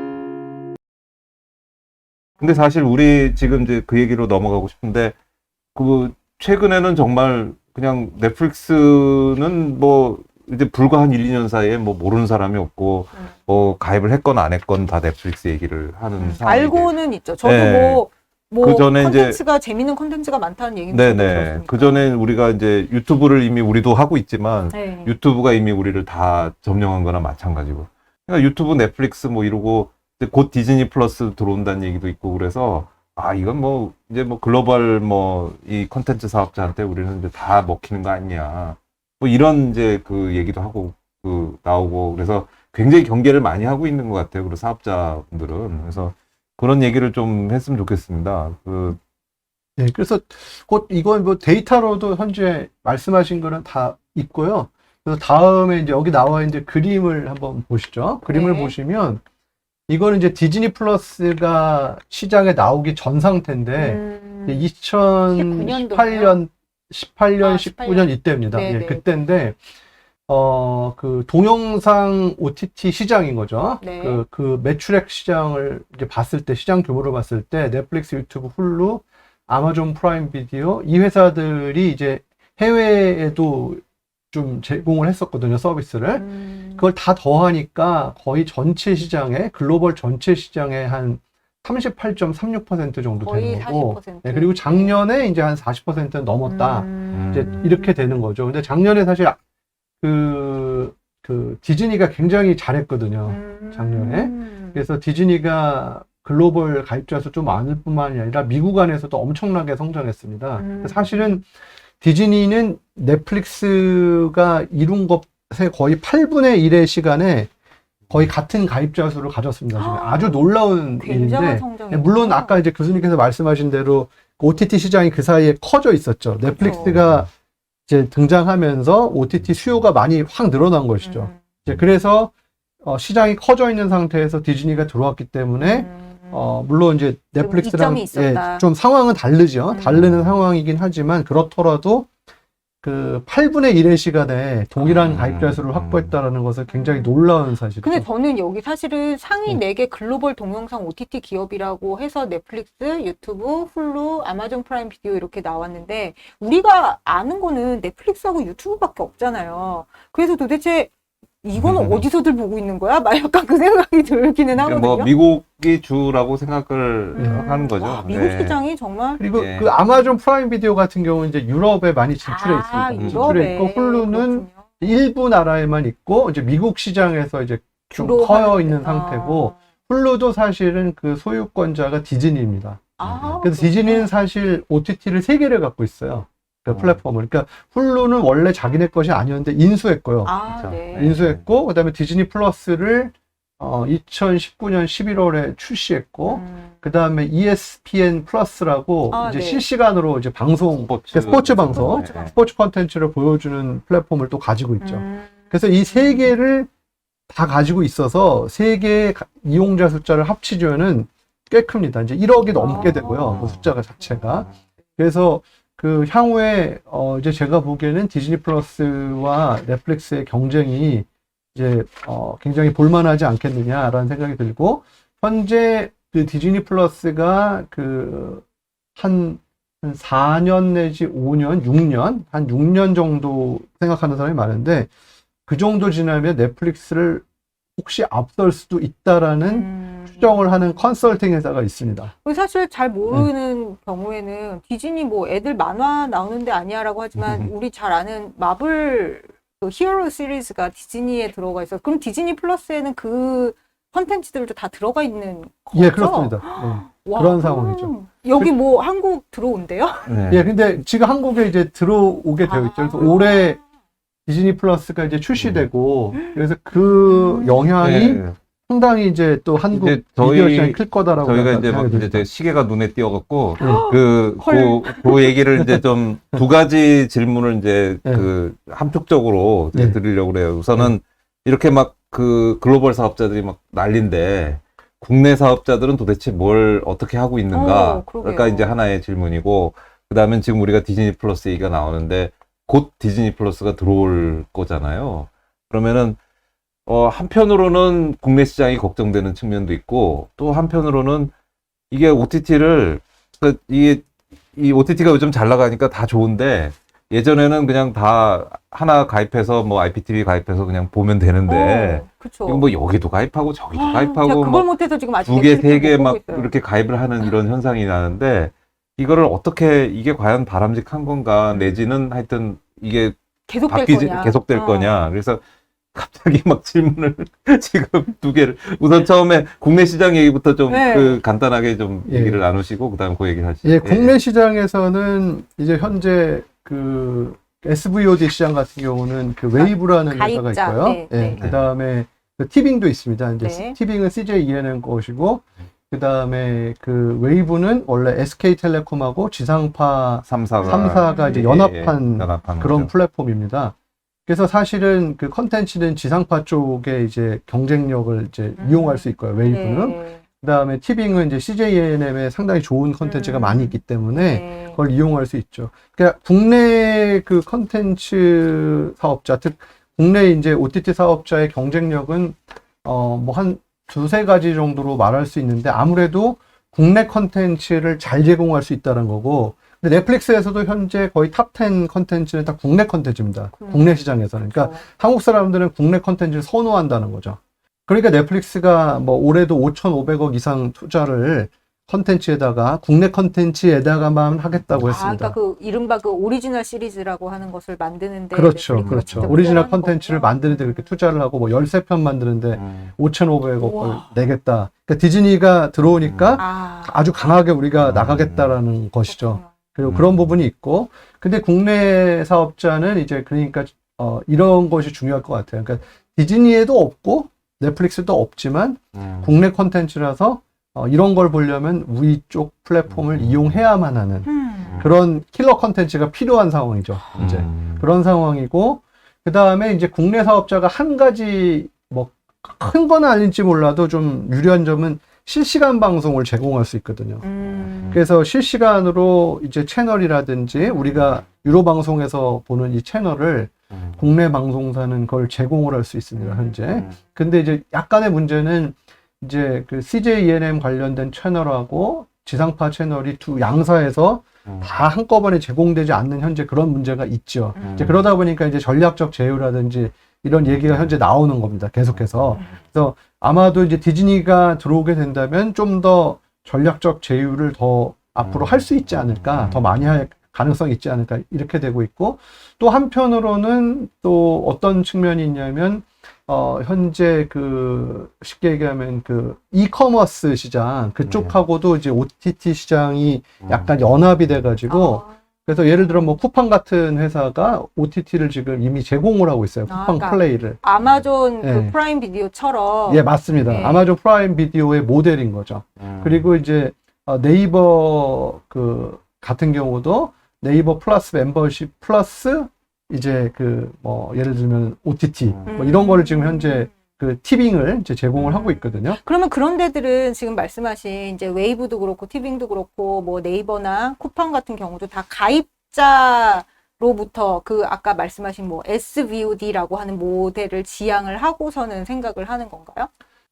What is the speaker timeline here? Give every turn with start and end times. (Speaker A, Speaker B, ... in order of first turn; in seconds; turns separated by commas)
Speaker A: 2.4-5.1, Speaker A: 5.7-18.0, Speaker B: 16.2-22.1, Speaker A: 18.6-19.4, Speaker A: 20.9-49.0, Speaker B: 24.7-25.1, Speaker C: 49.8-59.2, Speaker B: 58.3-58.7, Speaker C: 59.9-69.5, Speaker B: 63.8-64.7, Speaker B: 65.2-66.4, Speaker B: 67.4-69.0, Speaker C: 70.3-86.2, Speaker B: 73.8-74.2, Speaker B: 86.1-86.9, Speaker C: 86.8-99.4, Speaker B: 93.2-95.0, Speaker B: 96.4-98.0, Speaker A: 97.1-97.6, Speaker C: 100.0-111.5, Speaker B: 103.2-104.8, Speaker B: 110.6-111.4, Speaker C: 112.0-117.5, Speaker C: 118.1-127.3, Speaker B: 119.7-122.6, Speaker B: 126.5-126.9, Speaker A: 126.6-127.2, Speaker C: 127.9-132.3, Speaker B: 131.0-131.3, Speaker C: 132.8-142.1, Speaker B: 135.6-136.5, Speaker B: 137.4-138.6, Speaker B: 139.7-140.1, Speaker A: 140.0-140.3, Speaker C: 142.8-148.0, Speaker A: 144.8-146.1, Speaker B: 146.7-147.2, Speaker B: 147.8-160.9, Speaker B: 161.4-165.1, Speaker A: 161.5-162.1, Speaker A: 164.5-168.6, Speaker B: 167.1-169.2, Speaker C: 167.2-167.4, Speaker C: 169.2-190.3, Speaker A: 169.3-169.7, Speaker B: 172.2-174.8, Speaker A: 173.0-173.4, Speaker B: 177.9-179.5, Speaker B: 183.0-184.1, Speaker A: 183.0-183.4, Speaker A: 186.7-187.0, Speaker B: 190.2-191.2, Speaker A: 190.5-191.4, Speaker C: 190.9-206.7, Speaker B: 196.2-196.8, Speaker B: 199.1-199.7, Speaker A: 200.8-202.3, Speaker B: 201.1-202.4, Speaker B: 204.8-206.3, Speaker C: 207.3-228.4, Speaker B: 212.5-213.5, Speaker A: 213.3-213.7, Speaker C: 228.9-234.9, Speaker C: 235.5-237.2, Speaker C: 237.8-242.1, Speaker B: 239.4-241.1, Speaker B: 242.2-260.1, Speaker A: 247.2-247.5, Speaker C: 255.7-258.5, Speaker A: 260.1-260.5, Speaker C: 260.3-263.6, Speaker B: 262.4-263.6, Speaker C: 264.2-272.3, Speaker A: 265.3-265.6, Speaker B: 266.1-267.7, Speaker A: 267.8-268.4, Speaker A: 269.7-296.2, Speaker B: 273.6-275.4, Speaker C: 273.6-273.8, Speaker B: 287.5-288.8, Speaker A: 296.9-301.3, Speaker A: 301.9-325.4, Speaker B: 311.4-312.7, Speaker B: 313.7-316.5, Speaker B: 321.5-321.8, Speaker B: 323.5-324.9, Speaker A: 325.9-334.2, Speaker B: 330.7-331.2, Speaker C: 332.1-332.4, Speaker C: 333.6-353.7, Speaker B: 339.5-341.4, Speaker A: 341.4-341.6, Speaker B: 343.4-343.8, Speaker A: 350.2-352.9, Speaker B: 350.6-351.5, Speaker C: 354.3-395.3, Speaker B: 358.6-360.2, Speaker B: 363.0-364.8, Speaker B: 383.5-384.8, Speaker B: 394.8-401.0, Speaker C: 398.3-424.3, Speaker A: 398.7-399.6, Speaker A: 402.5-402.9, Speaker B: 403.6-404.1, Speaker A: 406.0-406.4, Speaker B: 406.4-407.1, Speaker A: 407.8-408.6, Speaker B: 409.1-409.5, Speaker A: 409.8-410.3, Speaker A: 418.9-419.3, Speaker A: 422.9-423.6, Speaker B: 424.2-424.9, Speaker A: 424.6-424.9, Speaker C: 424.8-437.2, Speaker A: 427.1-427.8, Speaker B: 437.2-438.0, Speaker C: 437.9-490.6, Speaker B: 440.5-441.1, Speaker A: 443.7-444.0, Speaker B: 446.1-446.6, Speaker A: 454.4-454.8, Speaker B: 457.5-458.0, Speaker A: 457.6-458.1, Speaker A: 460.4-460.9, Speaker A: 461.9-462.4, Speaker A: 468.2-469.9, Speaker A: 481.0-481.4, Speaker A: 483.4-483.8, Speaker B: 484.7-485.1, Speaker B: 489.6-493.9, Speaker A: 490.8-491.1, Speaker C: 491.4-491.7, Speaker C: 492.9-509.0, Speaker A: 495.8-496.3, Speaker A: 505.2-505.6, Speaker B: 505.5-506.7, Speaker B: 508.1-522.9